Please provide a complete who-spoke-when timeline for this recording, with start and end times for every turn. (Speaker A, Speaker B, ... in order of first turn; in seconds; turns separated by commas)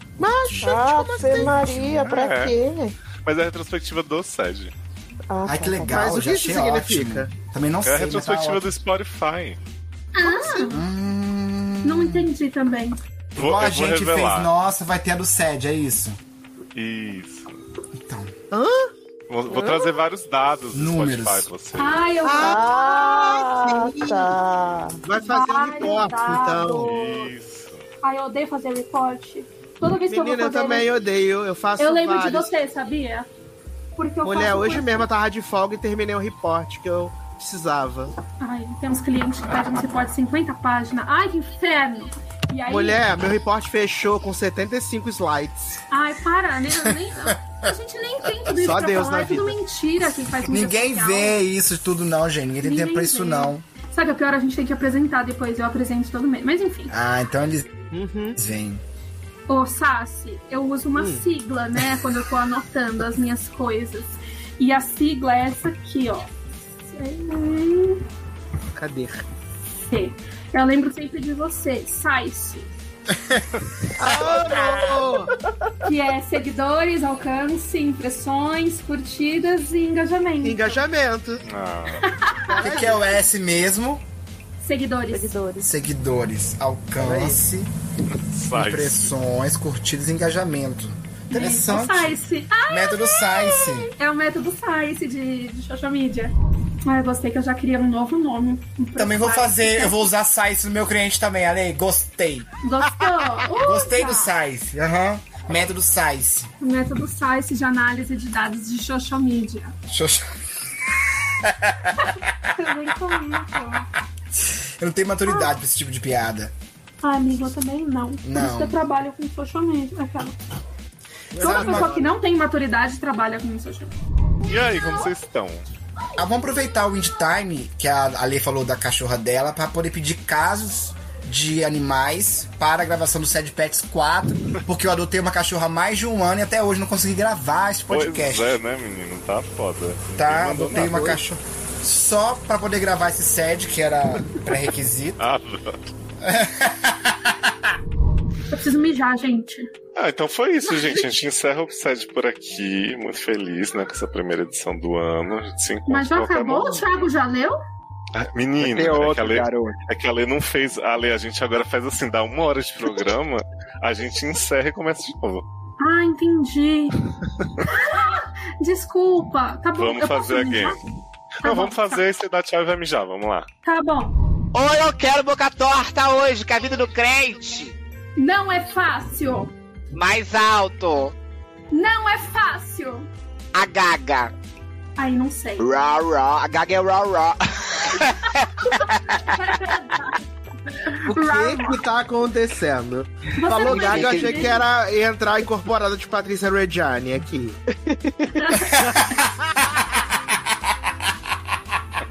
Speaker A: 0.2-1.7, Speaker B: 0.6-3.0, Speaker C: 1.3-1.9, Speaker D: 1.9-2.5, Speaker D: 3.2-4.7, Speaker B: 5.3-6.2, Speaker C: 5.5-8.7, Speaker A: 5.9-7.3, Speaker D: 7.8-9.6, Speaker E: 10.1-10.8, Speaker A: 10.2-10.8, Speaker C: 10.7-12.3, Speaker E: 11.8-12.9, Speaker C: 13.3-16.2, Speaker D: 13.3-14.5, Speaker D: 16.7-17.6, Speaker C: 18.0-18.3, Speaker A: 18.5-18.9, Speaker D: 19.3-22.0, Speaker B: 19.5-19.9, Speaker C: 20.7-21.5, Speaker E: 21.8-23.3, Speaker A: 22.2-24.3, Speaker B: 22.4-25.0, Speaker A: 25.0-26.9, Speaker E: 25.2-27.3, Speaker D: 26.9-27.8, Speaker E: 28.0-30.9, Speaker A: 30.1-32.5, Speaker E: 31.8-33.3, Speaker E: 34.0-35.1, Speaker A: 34.2-38.1, Speaker E: 38.4-43.0, Speaker A: 42.7-45.8, Speaker E: 45.9-51.4, Speaker C: 46.8-47.7, Speaker A: 48.6-49.6, Speaker C: 50.4-53.6, Speaker E: 52.6-56.9, Speaker C: 56.9-57.7, Speaker A: 57.9-58.4, Speaker C: 58.4-58.8, Speaker E: 59.5-66.3, Speaker A: 60.9-61.2, Speaker E: 66.9-68.0, Speaker A: 68.8-69.2, Speaker E: 69.8-72.7, Speaker A: 74.0-75.3, Speaker B: 75.4-75.9, Speaker E: 75.8-80.8, Speaker A: 80.4-81.4, Speaker D: 81.5-82.0, Speaker E: 82.0-82.5, Speaker A: 82.5-83.0, Speaker C: 82.6-84.0, Speaker E: 84.6-85.3, Speaker B: 85.1-85.7, Speaker C: 85.6-87.7, Speaker D: 88.1-89.1, Speaker C: 88.5-92.2, Speaker E: 91.3-96.3, Speaker C: 92.7-93.9, Speaker E: 96.8-100.1, Speaker C: 99.0-102.5, Speaker E: 102.6-104.3, Speaker C: 103.0-106.5, Speaker E: 106.6-109.7, Speaker C: 109.9-110.2, Speaker C: 111.4-111.9, Speaker E: 112.0-113.9, Speaker C: 114.4-116.5, Speaker E: 115.2-115.5, Speaker E: 117.0-120.4, Speaker C: 118.2-118.8, Speaker A: 121.3-122.1, Speaker C: 121.3-122.0, Speaker E: 121.4-123.9, Speaker D: 124.5-125.7, Speaker C: 126.2-138.6, Speaker D: 137.9-141.2, Speaker C: 140.1-145.2, Speaker D: 145.2-145.9, Speaker C: 146.2-147.3, Speaker E: 148.5-149.7, Speaker D: 149.9-156.9, Speaker E: 150.6-151.0, Speaker E: 155.9-157.6, Speaker D: 158.1-165.4, Speaker F: 158.6-159.8, Speaker E: 165.8-166.9, Speaker E: 167.6-170.8, Speaker D: 169.8-170.8, Speaker E: 171.4-172.0, Speaker D: 171.4-173.5, Speaker E: 173.6-174.2, Speaker F: 174.5-177.8, Speaker E: 178.2-179.5, Speaker F: 179.9-181.1, Speaker E: 181.7-183.1, Speaker F: 183.5-184.3, Speaker E: 185.0-185.7, Speaker F: 185.6-189.2, Speaker E: 188.6-191.8, Speaker A: 191.0-197.6, Speaker E: 193.4-194.6, Speaker F: 193.6-194.5, Speaker B: 197.9-198.3, Speaker E: 198.4-199.1, Speaker C: 198.7-199.8